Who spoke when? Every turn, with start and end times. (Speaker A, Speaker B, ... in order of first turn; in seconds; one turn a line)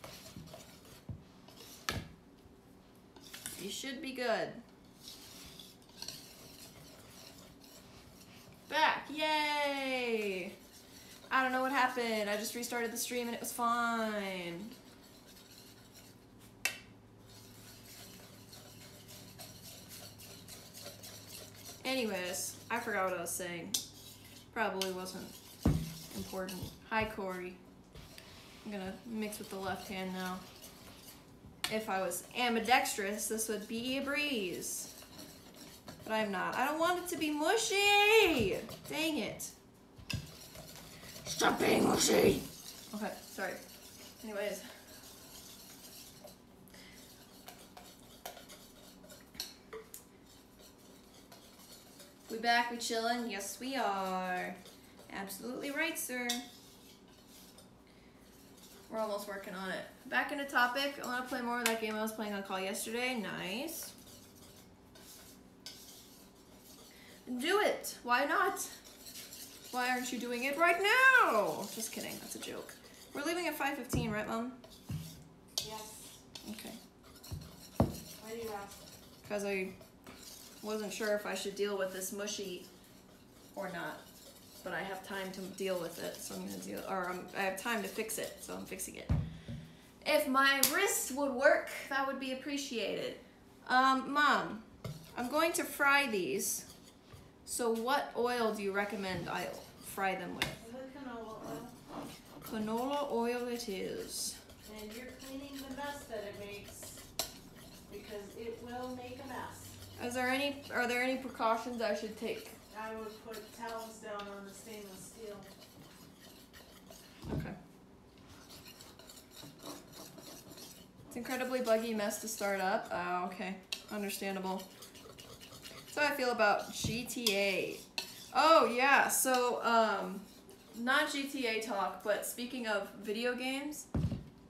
Speaker A: 3.5-4.6
Speaker A: 8.7-10.5
Speaker A: 11.3-14.7
Speaker A: 21.8-23.8
Speaker A: 24.5-25.3
Speaker A: 26.1-27.6
Speaker A: 28.6-30.4
Speaker A: 31.7-34.9
Speaker A: 36.0-39.5
Speaker A: 41.2-43.6
Speaker A: 44.2-44.7
Speaker A: 52.3-54.6
Speaker A: 55.1-56.4
Speaker A: 58.9-63.9
Speaker A: 67.2-68.7
Speaker A: 69.7-74.6
Speaker B: 75.6-76.2
Speaker A: 76.4-76.8
Speaker B: 78.2-78.9
Speaker A: 79.2-79.7
Speaker A: 80.6-82.7
Speaker A: 83.5-84.0
Speaker A: 84.6-89.1
Speaker A: 90.0-96.7
Speaker A: 97.5-100.6
Speaker B: 100.6-101.7
Speaker A: 102.5-104.4
Speaker B: 104.6-107.0
Speaker B: 107.9-109.7
Speaker A: 110.0-112.5
Speaker B: 112.7-115.5
Speaker A: 117.2-117.6
Speaker A: 121.1-124.7
Speaker A: 125.9-133.9